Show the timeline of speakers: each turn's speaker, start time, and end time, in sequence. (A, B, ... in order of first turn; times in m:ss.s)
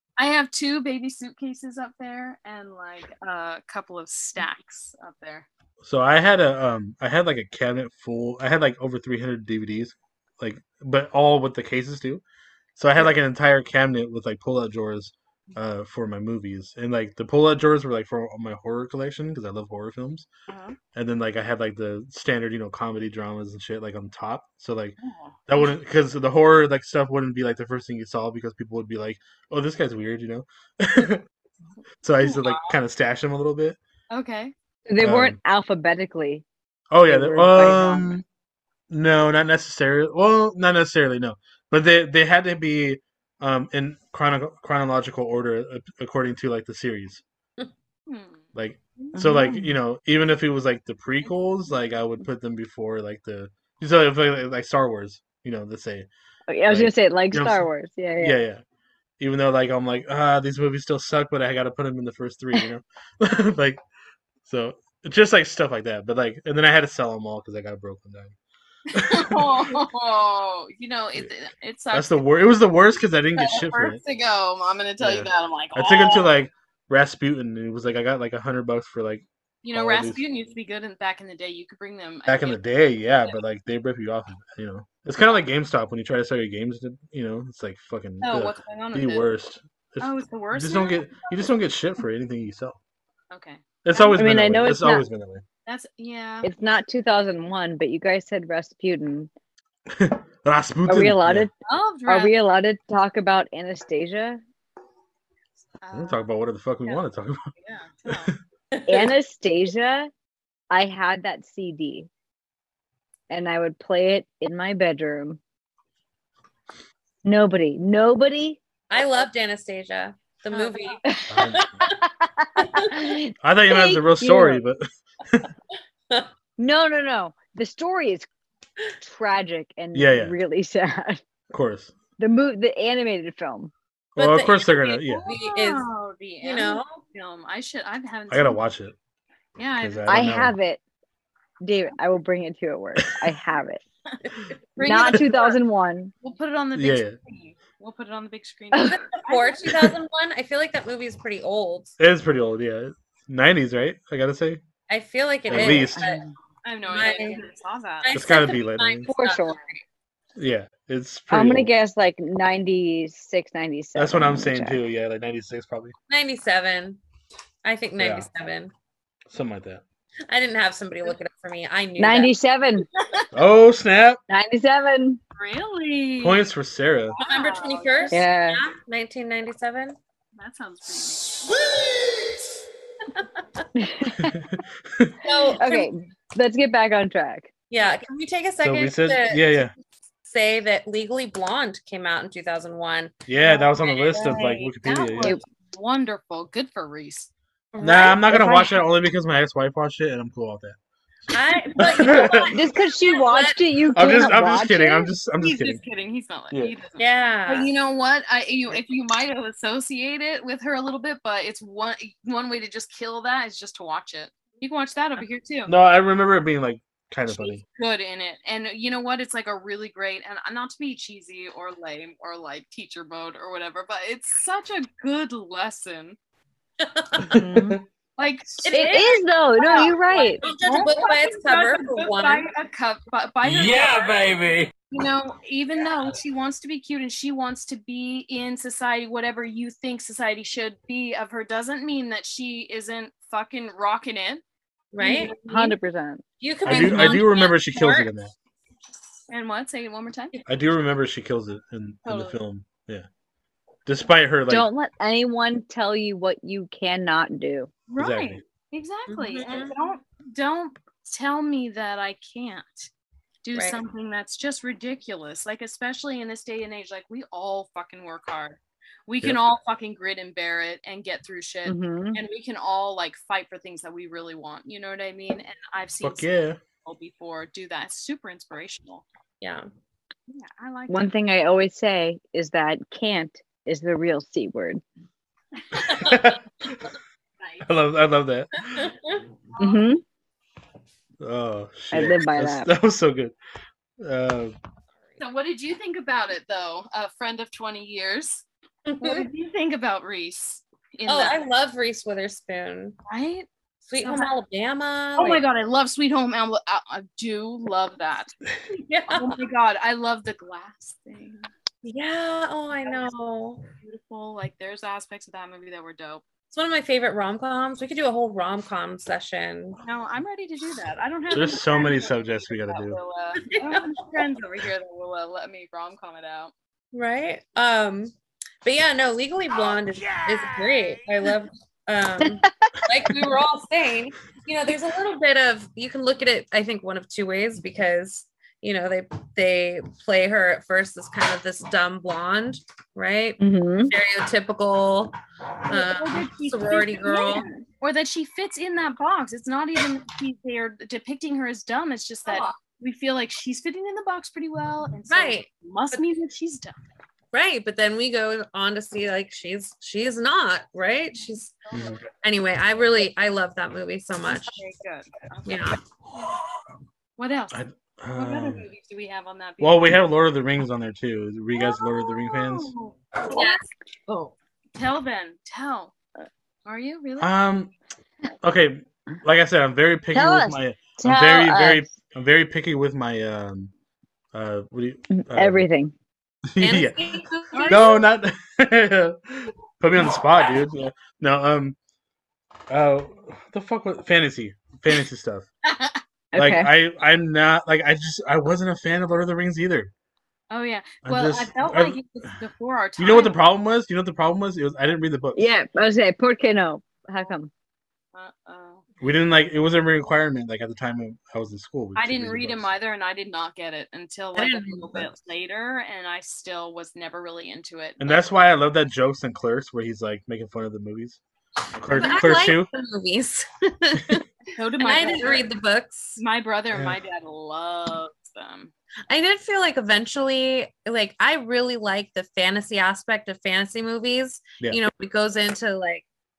0:00.2-0:05.5 A
0:05.8-0:12.2 B
0:12.8-0:20.3 B
0:20.5-0:20.8 A
0:20.9-0:31.2 B
0:25.0-0:25.7 A
0:32.0-0:33.8 B
0:32.2-0:32.7 A
0:34.1-0:34.5 A
0:34.9-0:36.4 C
0:35.0-0:35.4 B
0:36.9-0:38.2 B
0:37.0-0:38.2 C
0:38.9-0:47.2 B
0:48.1-0:48.5 A
0:48.6-0:56.1 B
0:49.0-0:49.6 A
0:49.2-0:49.6 C
0:56.5-0:58.4 C
0:56.7-0:57.7 B
0:58.2-0:58.6 B
0:59.2-1:03.8 B
1:04.4-1:08.4 B
1:08.9-1:12.3 A
1:09.0-1:09.6 B
1:11.9-1:14.0 B
1:13.4-1:16.3 A
1:15.0-1:20.2 B
1:19.6-1:22.6 A
1:22.3-1:32.8 B
1:28.2-1:29.3 A
1:30.0-1:31.5 A
1:33.3-1:34.2 A
1:33.8-1:35.4 B
1:34.1-1:35.0 C
1:35.7-1:36.5 A
1:36.4-1:39.3 C
1:39.9-1:41.5 B
1:40.9-1:41.5 C
1:41.6-1:42.3 A
1:42.1-1:44.4 C
1:45.8-1:46.2 A
1:45.9-1:47.5 B
1:47.6-1:48.3 A
1:48.1-1:48.3 B
1:48.7-1:49.1 D
1:48.9-1:50.1 C
1:50.7-1:52.1 C
1:53.3-1:55.4 C
1:57.2-1:58.6 C
1:58.9-2:02.0 D
1:58.9-1:59.2 A
2:00.5-2:01.0 A
2:01.0-2:04.6 C
2:01.3-2:01.9 B
2:02.6-2:02.9 D
2:03.4-2:05.5 B
2:06.6-2:08.3 C
2:09.0-2:11.2 C
2:09.9-2:10.4 B
2:11.5-2:12.0 B
2:12.2-2:13.7 C
2:14.2-2:15.3 B
2:14.2-2:15.9 D
2:15.1-2:18.6 A
2:16.4-2:17.0 D
2:18.3-2:19.0 B
2:19.6-2:20.1 A
2:19.8-2:20.6 B
2:20.1-2:20.8 C
2:21.6-2:23.8 C
2:24.4-2:25.6 A
2:24.8-2:26.1 C
2:26.2-2:29.9 A
2:26.8-2:27.1 B
2:28.8-2:32.0 D
2:32.0-2:34.6 B
2:34.9-2:36.2 D
2:35.5-2:36.1 B
2:35.6-2:36.3 C
2:36.6-2:38.1 A
2:36.9-2:37.4 D
2:38.0-2:39.8 D
2:38.1-2:39.1 B
2:39.1-2:39.6 C
2:40.4-2:41.7 B
2:41.3-2:44.8 C
2:44.0-2:45.9 B
2:46.1-2:47.0 D
2:47.6-2:48.7 D
2:48.0-2:48.3 B
2:49.3-2:49.8 B
2:50.3-2:52.3 D
2:52.0-2:52.9 C
2:53.0-2:53.3 A
2:53.3-2:54.2 B
2:54.3-2:55.2 C
2:55.4-2:56.4 A
2:56.2-2:57.2 B
2:57.1-2:58.3 A
2:57.2-3:00.0 D
2:58.1-2:58.6 C
3:00.4-3:01.7 A
3:03.8-3:04.4 C
3:04.3-3:05.2 B
3:05.2-3:05.9 D
3:05.6-3:07.5 C
3:07.7-3:09.6 D
3:08.6-3:09.7 B
3:10.2-3:13.1 D
3:13.3-3:15.4 B
3:13.4-3:17.3 A
3:17.7-3:18.3 D
3:17.8-3:20.8 B
3:18.3-3:18.7 C
3:21.3-3:23.6 D
3:21.3-3:22.5 B
3:22.1-3:25.1 C
3:23.9-3:25.8 B
3:25.4-3:35.7 A
3:27.0-3:27.7 D
3:35.7-3:37.6 B
3:37.3-3:46.2 A
3:46.8-3:47.4 D
3:47.3-3:47.8 C
3:48.2-3:54.3 A
3:48.6-3:49.2 D
3:48.7-3:50.4 C
3:50.4-3:52.5 D
3:53.4-3:54.7 E
3:54.9-4:04.4 A
4:04.9-4:05.4 D
4:05.0-4:05.8 A
4:05.5-4:06.2 C
4:06.4-4:08.1 D
4:06.6-4:08.3 B
4:09.3-4:10.4 A
4:10.5-4:13.1 B
4:12.0-4:12.4 A
4:13.9-4:14.7 B
4:14.5-4:17.7 C
4:17.9-4:22.9 A
4:18.0-4:18.4 B
4:19.1-4:19.7 D
4:23.4-4:36.3 A
4:23.5-4:23.8 D
4:31.7-4:32.2 C
4:36.0-4:36.6 B
4:36.8-4:39.0 A
4:39.4-4:39.7 D
4:40.3-4:41.1 A
4:40.9-4:44.8 C
4:45.8-4:46.9 B
4:47.4-4:47.7 A
4:47.6-4:48.5 B
4:48.7-4:49.1 D
4:49.6-4:49.9 A
4:49.6-4:50.0 C
4:51.2-4:53.3 B
4:51.9-4:52.7 C
4:54.0-4:54.5 B
4:55.2-4:58.5 A
4:58.9-4:59.3 D
4:59.0-5:01.4 A
5:01.1-5:03.0 D
5:03.1-5:04.3 A
5:03.9-5:05.4 D
5:05.2-5:11.5 A
5:09.1-5:09.3 D
5:11.8-5:13.6 D
5:13.8-5:16.2 A
5:16.5-5:19.8 D
5:19.8-5:26.5 A
5:21.3-5:23.0 B
5:23.5-5:24.0 D
5:26.9-5:28.1 D
5:28.6-5:47.5 D
5:29.7-5:31.0 E
5:32.2-5:32.8 C
5:43.4-5:43.9 C
5:45.7-5:56.8 A
5:52.3-5:52.6 D
5:55.1-5:56.0 D
5:57.3-6:01.5 D
6:01.7-6:02.0 A
6:01.7-6:02.0 B
6:02.2-6:04.6 D
6:04.3-6:06.3 A
6:05.5-6:05.8 D
6:07.2-6:07.6 A
6:07.5-6:08.7 B
6:08.2-6:09.9 A
6:09.6-6:12.7 B
6:11.5-6:16.0 A
6:13.3-6:13.6 D
6:16.7-6:17.3 A
6:17.2-6:17.7 B
6:18.4-6:23.7 B
6:20.1-6:21.9 C
6:24.3-6:25.7 B
6:25.1-6:25.9 C
6:26.5-6:27.0 B
6:26.6-6:28.0 D
6:27.5-6:28.0 A
6:27.7-6:31.8 B
6:32.7-6:35.5 B
6:35.7-6:36.0 A
6:36.3-6:36.7 C
6:36.4-6:39.9 B
6:40.5-6:43.4 A
6:41.0-6:42.0 B
6:43.0-6:45.5 B
6:45.4-6:47.5 C
6:48.1-6:48.8 A
6:49.0-6:52.7 B
6:52.0-6:58.2 A
6:54.4-6:55.1 D
6:58.0-7:01.2 B
7:01.8-7:02.7 B
7:01.9-7:04.2 D
7:04.6-7:05.5 A
7:04.8-7:06.2 D
7:06.2-7:08.7 A
7:06.7-7:07.0 B
7:09.1-7:16.0 D